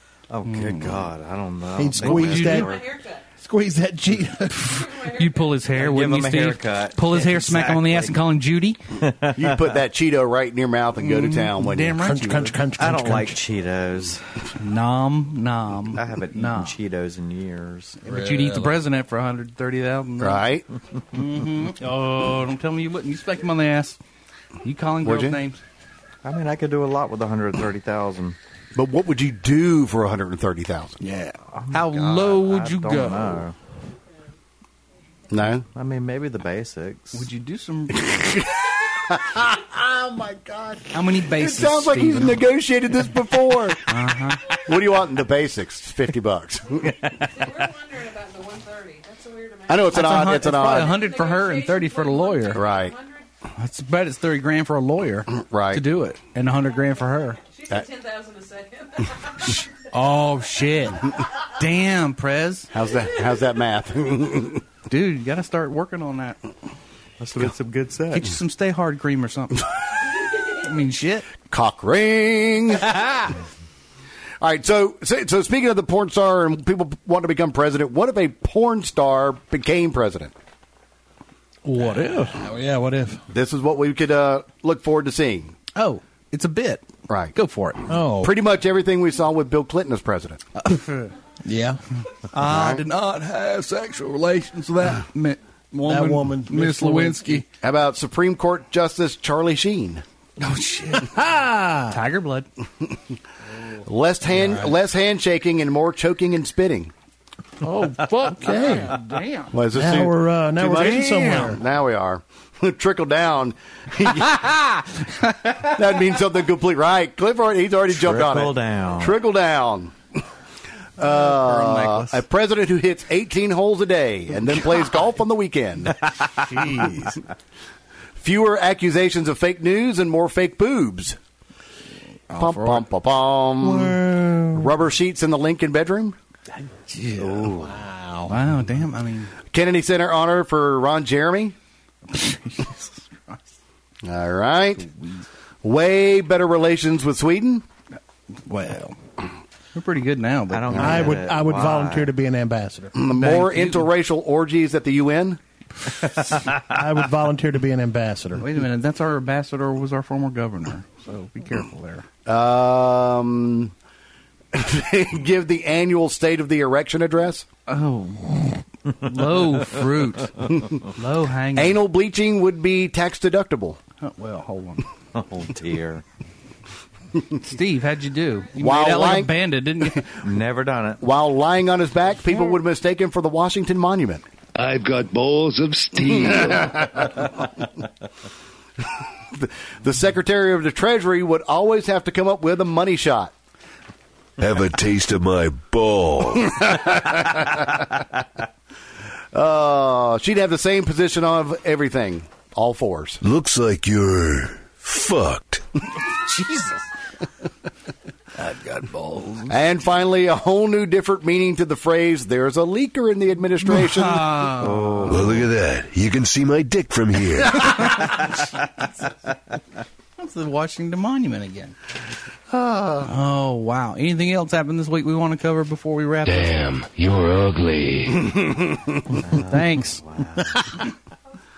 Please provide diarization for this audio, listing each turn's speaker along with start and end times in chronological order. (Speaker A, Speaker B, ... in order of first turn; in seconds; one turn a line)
Speaker A: 0.3-3.0
Speaker B: 0.5-1.0
Speaker C: 1.8-2.8
Speaker B: 2.0-2.8
Speaker D: 2.5-3.2
Speaker C: 3.4-4.9
Speaker D: 4.7-5.7
Speaker B: 4.8-8.8
Speaker A: 5.7-8.2
Speaker A: 8.9-9.7
Speaker E: 9.3-12.1
Speaker B: 11.0-12.6
Speaker C: 12.0-13.4
Speaker A: 12.8-14.5
Speaker B: 14.6-16.8
Speaker A: 15.9-18.0
Speaker B: 18.0-20.5
Speaker C: 18.1-18.8
Speaker E: 20.2-20.6
Speaker B: 21.1-24.0
Speaker B: 24.6-25.6
Speaker E: 25.0-25.4
Speaker A: 26.2-28.4
Speaker E: 28.8-31.0
Speaker B: 31.0-33.4
Speaker A: 31.7-33.5
Speaker E: 35.3-35.7
Speaker A: 35.7-37.3
Speaker B: 37.1-38.4
Speaker E: 38.0-43.9
Speaker B: 40.9-42.4
Speaker B: 43.9-44.6
Speaker E: 44.6-47.1
Speaker D: 47.1-53.3
Speaker E: 49.7-51.0
Speaker B: 49.9-52.7
Speaker E: 52.5-53.0
Speaker B: 53.6-57.4
Speaker E: 55.4-55.8
Speaker D: 57.4-59.6
Speaker B: 59.4-62.7
Speaker E: 62.7-64.6
Speaker B: 64.9-66.4
Speaker A: 67.2-68.3
Speaker B: 68.1-69.7
Speaker B: 70.4-71.3
Speaker E: 71.5-73.0
Speaker B: 72.9-73.3
Speaker E: 74.4-80.3
Speaker B: 81.7-82.4
Speaker C: 81.8-83.2
Speaker E: 83.3-85.5
Speaker B: 85.8-87.9
Speaker E: 87.1-87.3
Speaker C: 87.9-88.4
Speaker E: 88.2-90.4
Speaker B: 90.5-91.2
Speaker C: 91.4-91.8
Speaker B: 92.3-97.5
Speaker E: 92.4-92.8
Speaker C: 95.9-97.4
Speaker E: 97.6-100.0
Speaker B: 100.4-101.2
Speaker C: 101.0-102.0
Speaker B: 101.9-102.5
Speaker E: 103.8-106.9
Speaker C: 104.3-104.7
Speaker B: 107.6-109.6
Speaker C: 108.4-109.0
Speaker E: 109.5-114.5
Speaker C: 109.7-111.6
Speaker B: 110.7-111.5
Speaker B: 114.3-115.7
Speaker E: 115.6-120.0
Speaker A: 117.9-119.2
Speaker E: 121.0-126.0
Speaker B: 121.0-122.2
Speaker B: 126.4-127.2
Speaker E: 128.2-131.2
Speaker B: 132.3-132.8
Speaker E: 132.3-134.0
Speaker A: 133.7-134.7
Speaker E: 134.5-136.2
Speaker B: 136.9-137.6
Speaker A: 137.2-137.7
Speaker C: 137.6-138.4
Speaker B: 138.3-139.3
Speaker E: 139.5-141.6
Speaker B: 142.1-143.4
Speaker E: 144.0-144.9
Speaker B: 144.8-145.2
Speaker E: 145.6-147.7
Speaker B: 148.4-149.0
Speaker B: 149.8-151.2
Speaker A: 150.5-152.1
Speaker E: 150.7-151.1
Speaker C: 150.8-152.9
Speaker E: 152.9-155.4
Speaker B: 153.1-153.9
Speaker C: 156.6-158.5
Speaker B: 158.4-162.1
Speaker E: 162.3-163.7
Speaker E: 164.5-167.5
Speaker B: 167.7-171.8
Speaker E: 171.6-173.8
Speaker B: 174.0-174.9
Speaker A: 175.1-176.0
Speaker B: 177.4-180.1
Speaker E: 178.6-179.3
Speaker A: 180.2-181.0
Speaker E: 181.0-184.2
Speaker F: 184.6-187.3
Speaker E: 189.3-193.3
Speaker F: 194.4-196.6
Speaker E: 196.5-197.8
Speaker E: 199.3-203.2
Speaker F: 203.2-205.6
Speaker B: 206.1-206.8
Speaker B: 208.4-209.5
Speaker E: 209.5-214.5
Speaker B: 213.7-215.2
Speaker A: 214.6-215.5
Speaker F: 215.1-217.9
Speaker B: 217.6-218.3
Speaker B: 220.2-221.8
Speaker E: 222.5-223.1
Speaker B: 223.0-226.8
Speaker F: 226.2-228.5
Speaker E: 228.5-229.0
Speaker A: 229.1-230.7
Speaker B: 229.4-230.0